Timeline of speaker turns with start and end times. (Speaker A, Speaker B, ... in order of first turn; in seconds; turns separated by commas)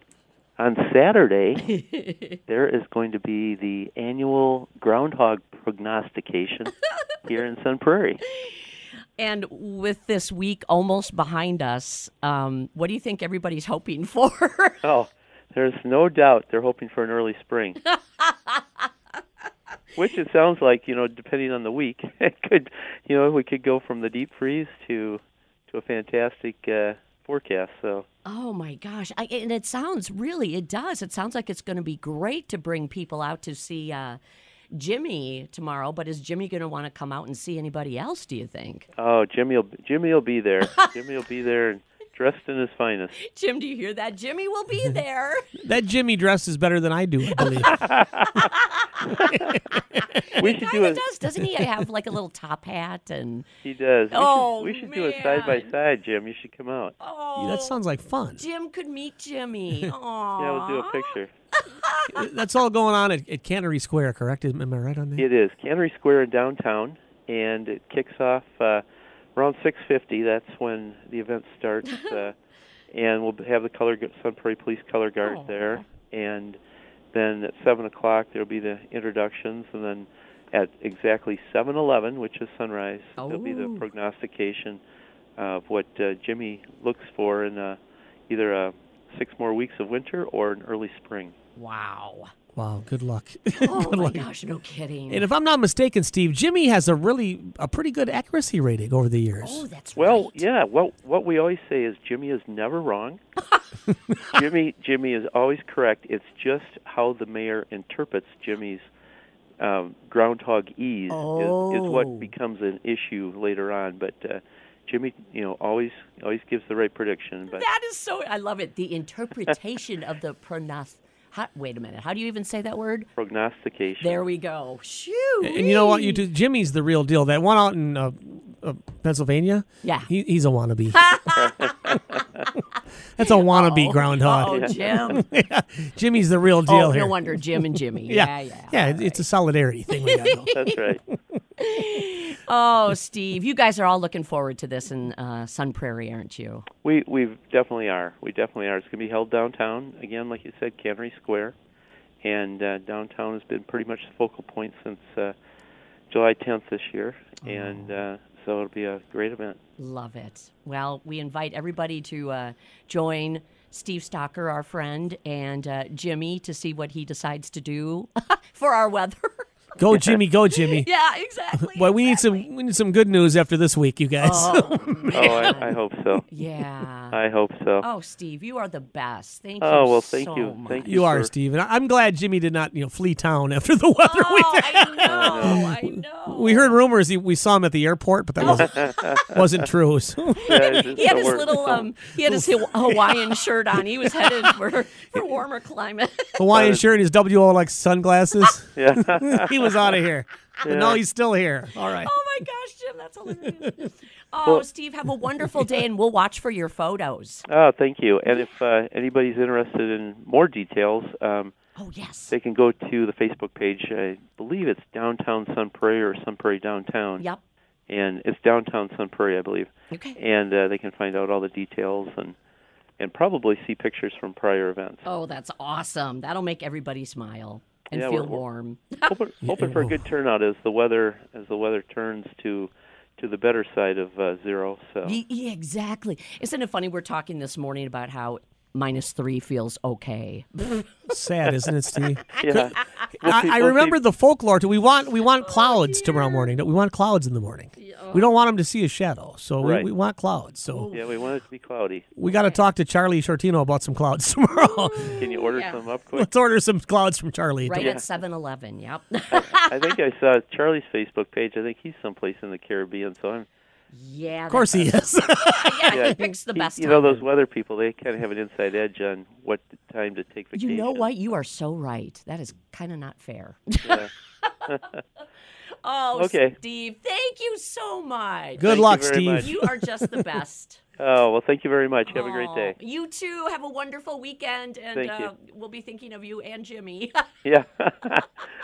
Speaker A: 0.6-1.8, Speaker B: 1.8-2.3, Speaker A: 2.5-8.2, Speaker B: 8.4-8.7, Speaker B: 9.2-14.8, Speaker A: 14.8-17.8, Speaker B: 17.9-18.9, Speaker A: 20.0-28.1, Speaker B: 28.3-34.2, Speaker B: 34.7-38.9, Speaker A: 39.0-43.1, Speaker B: 40.6-41.0, Speaker B: 43.2-45.5, Speaker C: 45.6-47.8, Speaker B: 47.4-47.7, Speaker A: 47.7-48.3, Speaker B: 48.4-49.3, Speaker C: 49.0-50.3, Speaker B: 50.0-53.5, Speaker A: 50.4-51.0, Speaker A: 53.6-57.0, Speaker B: 54.1-55.7, Speaker B: 57.0-57.8, Speaker C: 57.4-58.4, Speaker B: 58.3-62.2, Speaker A: 60.4-61.3, Speaker C: 62.1-65.3, Speaker A: 65.2-68.8, Speaker A: 69.4-72.3, Speaker A: 72.9-76.6, Speaker B: 75.2-75.9, Speaker A: 77.1-84.8, Speaker B: 83.2-83.9, Speaker A: 85.4-87.8, Speaker A: 88.3-91.3, Speaker B: 91.6-92.3, Speaker C: 92.6-94.3, Speaker B: 93.6-95.3, Speaker C: 95.1-99.6, Speaker B: 99.4-100.4, Speaker A: 100.0-103.2, Speaker A: 104.3-108.8, Speaker A: 109.6-117.7, Speaker B: 111.1-112.3, Speaker B: 117.5-123.1, Speaker A: 123.2-124.3, Speaker B: 124.0-126.2, Speaker C: 125.4-131.1, Speaker B: 129.8-130.1, Speaker B: 130.9-132.0, Speaker A: 131.4-132.5, Speaker B: 132.7-135.2, Speaker C: 133.2-141.2, Speaker A: 134.5-135.0, Speaker B: 136.7-139.2, Speaker B: 140.1-140.5, Speaker A: 140.5-141.0, Speaker B: 141.6-146.7, Speaker A: 146.8-151.6, Speaker A: 152.2-155.3, Speaker A: 156.1-159.6, Speaker B: 157.4-158.0, Speaker B: 159.8-169.8, Speaker C: 169.8-170.9, Speaker B: 170.5-172.5, Speaker C: 171.5-175.5, Speaker B: 174.2-175.8, Speaker A: 175.1-176.3, Speaker B: 176.3-177.2, Speaker A: 177.1-177.9, Speaker B: 177.8-181.0, Speaker A: 179.6-181.3, Speaker C: 180.8-191.1, Speaker B: 184.1-186.8, Speaker A: 185.1-185.7, Speaker B: 188.4-189.2, Speaker A: 188.4-189.5, Speaker B: 190.4-196.5, Speaker A: 190.5-191.9, Speaker C: 192.2-193.4, Speaker C: 194.2-194.5, Speaker C: 196.4-202.1, Speaker A: 196.5-196.8, Speaker A: 198.8-199.7, Speaker A: 200.6-201.0, Speaker B: 201.8-207.5, Speaker A: 207.5-211.5, Speaker B: 208.3-208.6, Speaker B: 211.8-212.3, Speaker A: 212.3-217.2, Speaker A: 217.9-222.4, Speaker B: 219.9-220.2, Speaker A: 223.0-225.1, Speaker B: 225.1-229.1, Speaker A: 227.9-228.4, Speaker A: 229.1-235.2, Speaker C: 229.4-230.0, Speaker B: 235.1-241.2, Speaker C: 241.1-250.9, Speaker A: 242.3-244.0, Speaker B: 242.8-243.1, Speaker B: 245.4-246.5, Speaker B: 247.8-248.3, Speaker A: 249.6-249.9, Speaker B: 250.7-251.3, Speaker A: 250.9-252.1, Speaker C: 252.2-255.3, Speaker B: 252.2-252.7, Speaker B: 254.6-255.8, Speaker A: 255.2-256.3, Speaker C: 256.1-257.9, Speaker B: 257.6-259.9, Speaker A: 257.8-258.0, Speaker A: 259.3-263.5, Speaker B: 263.9-267.2, Speaker C: 264.5-266.2, Speaker A: 265.9-271.1, Speaker B: 270.5-274.7, Speaker A: 273.8-274.1, Speaker A: 274.7-275.0, Speaker B: 275.8-280.8, Speaker A: 276.1-276.6, Speaker C: 278.6-280.4, Speaker A: 278.6-279.5, Speaker A: 281.0-282.8, Speaker B: 282.1-287.3, Speaker A: 284.9-285.3, Speaker A: 287.4-288.3